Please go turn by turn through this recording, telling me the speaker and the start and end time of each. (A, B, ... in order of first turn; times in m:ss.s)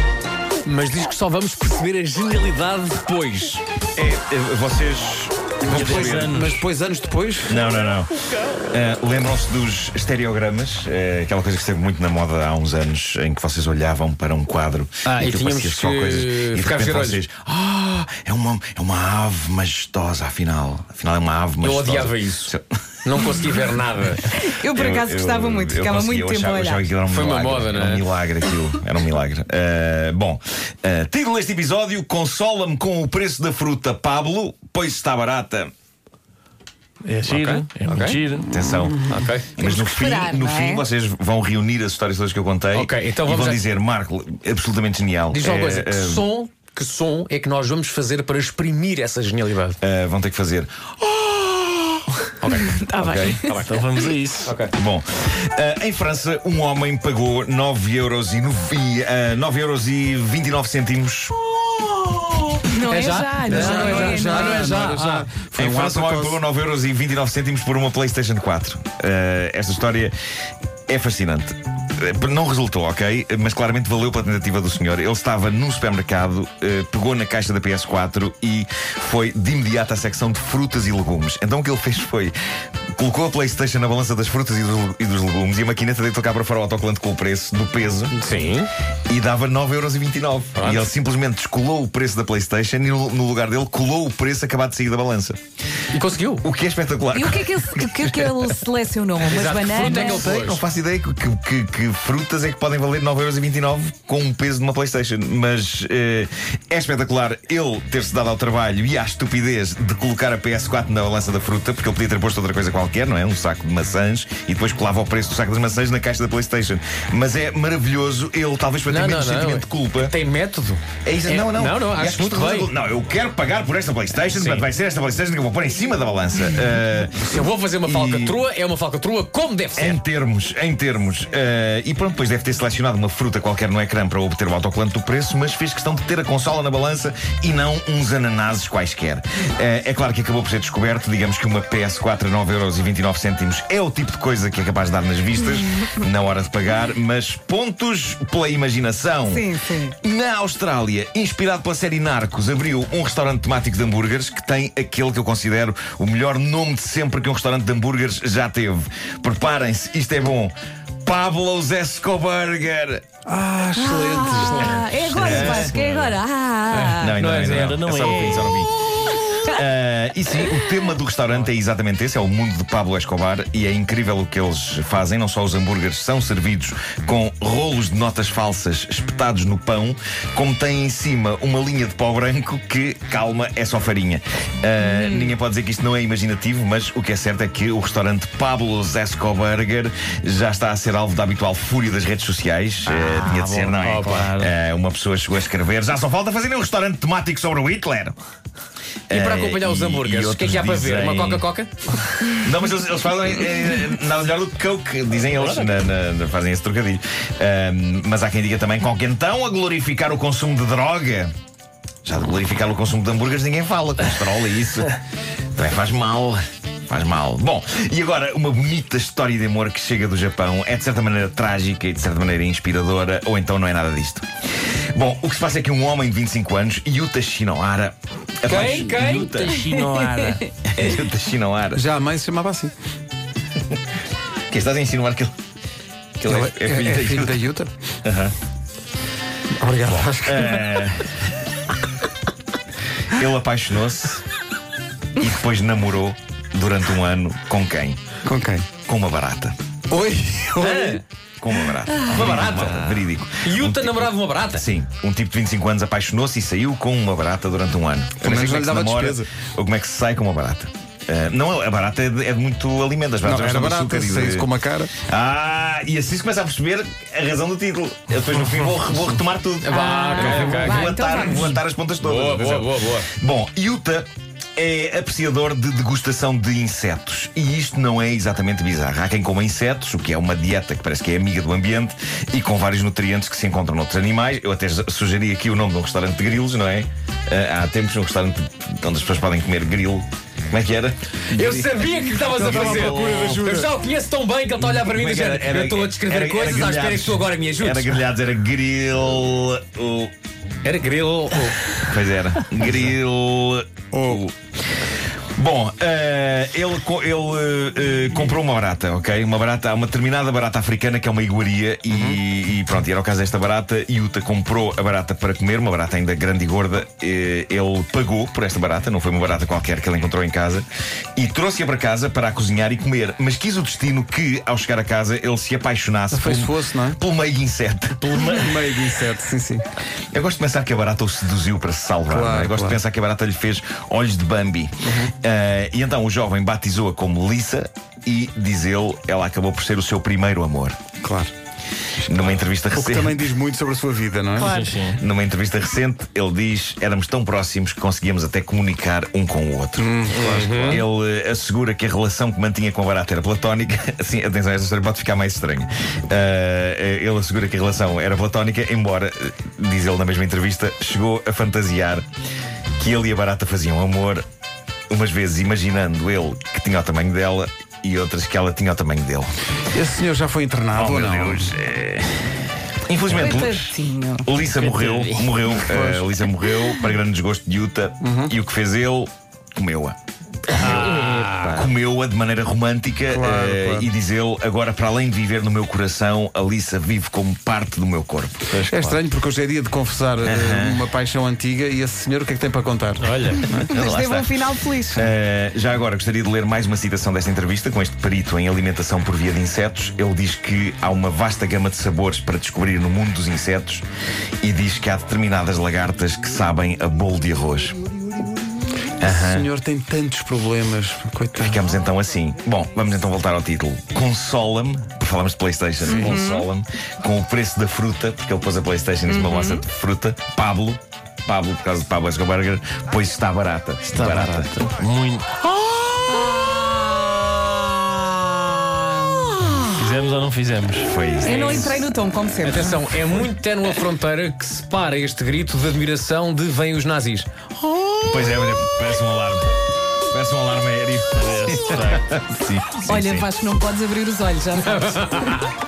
0:00.6-0:03.6 A
0:04.0-0:06.4 B
0:05.6-0:07.6 C
0:05.7-0:06.6 D
0:07.5-0:08.1 B
0:08.7-0:23.2 B
0:15.0-0:17.2 A
0:21.6-0:22.5 A
0:23.0-0:24.3 A
0:24.3-0:26.9 E
0:24.4-0:35.7 B
0:27.0-0:28.0 A
0:37.0-0:38.9 D
0:37.2-0:38.2 A
0:38.5-0:46.2 B
0:39.0-0:39.6 A
0:39.6-0:40.8 E
0:42.7-0:43.6 A
0:45.3-0:49.8 A
0:49.8-0:53.4 B
0:52.5-0:54.1 E
0:53.5-0:53.7 A
0:53.6-0:54.5 D
0:54.4-0:54.7 A
0:54.7-1:02.6 B
1:02.7-1:04.7 E
1:02.7-1:05.3 A
1:03.4-1:06.4 C
1:05.5-1:10.1 B
1:10.9-1:22.3 B
1:22.9-1:28.2 B
1:28.1-1:28.7 A
1:29.1-1:35.4 B
1:30.6-1:30.9 A
1:35.9-1:36.4 A
1:36.4-1:38.5 B
1:37.1-1:40.3 E
1:39.2-1:40.6 A
1:39.6-2:00.1 B
1:58.9-2:02.7 A
2:01.0-2:08.4 B
2:04.3-2:04.7 A
2:07.2-2:10.0 A
2:09.8-2:29.5 B
2:29.3-2:29.9 E
2:30.0-2:40.5 B
2:41.0-2:43.0 B
2:43.2-2:45.7 C
2:43.8-2:47.2 E
2:44.4-2:48.6 D
2:45.2-2:45.8 B
2:46.9-2:48.7 B
2:47.1-2:47.8 A
2:48.8-2:49.6 E
2:49.4-3:18.2 B
3:04.8-3:05.3 E
3:12.8-3:14.5 D
3:13.8-3:14.3 A
3:19.1-3:21.4 B
3:19.1-3:22.0 A
3:22.2-3:31.3 B
3:25.3-3:25.7 A
3:32.0-3:35.0 B
3:35.5-3:44.2 B
3:44.9-3:49.6 B
3:48.4-3:49.4 A
3:48.5-3:50.5 D
3:49.6-3:50.4 E
3:50.6-3:51.8 B
3:51.7-3:52.7 C
3:54.5-3:55.3 B
3:56.2-3:57.4 B
3:56.2-3:57.7 C
3:58.0-3:58.3 B
3:59.6-4:00.8 C
4:00.1-4:01.3 B
4:03.1-4:04.2 B
4:05.2-4:08.0 B
4:08.2-4:08.7 C
4:08.8-4:09.6 B
4:09.9-4:11.0 C
4:10.6-4:11.0 A
4:11.4-4:53.6 B
4:12.0-4:14.6 A
4:18.2-4:19.3 C
4:23.2-4:24.9 C
4:29.6-4:31.4 A
4:29.6-4:31.6 E
4:32.0-4:33.1 A
4:51.3-4:58.0 A
4:52.2-4:53.7 C
4:54.6-5:00.1 B
5:00.6-5:01.6 A
5:01.8-5:28.3 B
5:03.9-5:04.2 C
5:11.9-5:12.2 C
5:26.1-5:27.0 C
5:28.0-5:28.5 D
5:28.3-5:29.6 C
5:30.1-5:40.8 B
5:32.1-5:32.8 C
5:41.0-5:41.3 C
5:42.0-5:43.2 B
5:42.6-5:44.6 C
5:44.4-5:45.0 D
5:44.4-5:44.7 E
5:44.9-5:50.0 B
5:49.8-5:50.8 C
5:50.1-5:50.8 A
5:50.6-6:02.0 B
6:02.8-6:04.2 B
6:04.9-6:09.3 B
6:09.7-6:11.6 C
6:10.7-6:20.0 B
6:13.1-6:14.3 E
6:14.4-6:15.5 D
6:15.6-6:16.1 C
6:18.0-6:18.3 C
6:20.5-6:21.6 D
6:20.6-6:28.5 B
6:20.6-6:21.3 A
6:23.1-6:23.9 C
6:28.5-6:29.0 D
6:28.7-6:33.7 C
6:30.2-6:30.8 B
6:33.0-6:33.5 D
6:33.6-6:35.1 E
6:33.7-6:43.8 B
6:44.4-6:47.8 B
6:49.0-6:49.5 B
6:49.0-6:51.6 C
6:51.4-7:04.5 B
6:55.8-6:56.4 E
6:59.1-6:59.6 E
7:03.9-7:05.3 D
7:05.5-7:09.4 E
7:09.4-7:10.9 D
7:10.8-7:11.7 B
7:11.2-7:12.8 E
7:11.2-7:11.7 A
7:12.4-7:17.5 A
7:18.0-7:19.5 B
7:20.1-7:23.3 B
7:21.2-7:22.1 D
7:22.8-7:25.4 E
7:25.0-7:25.5 A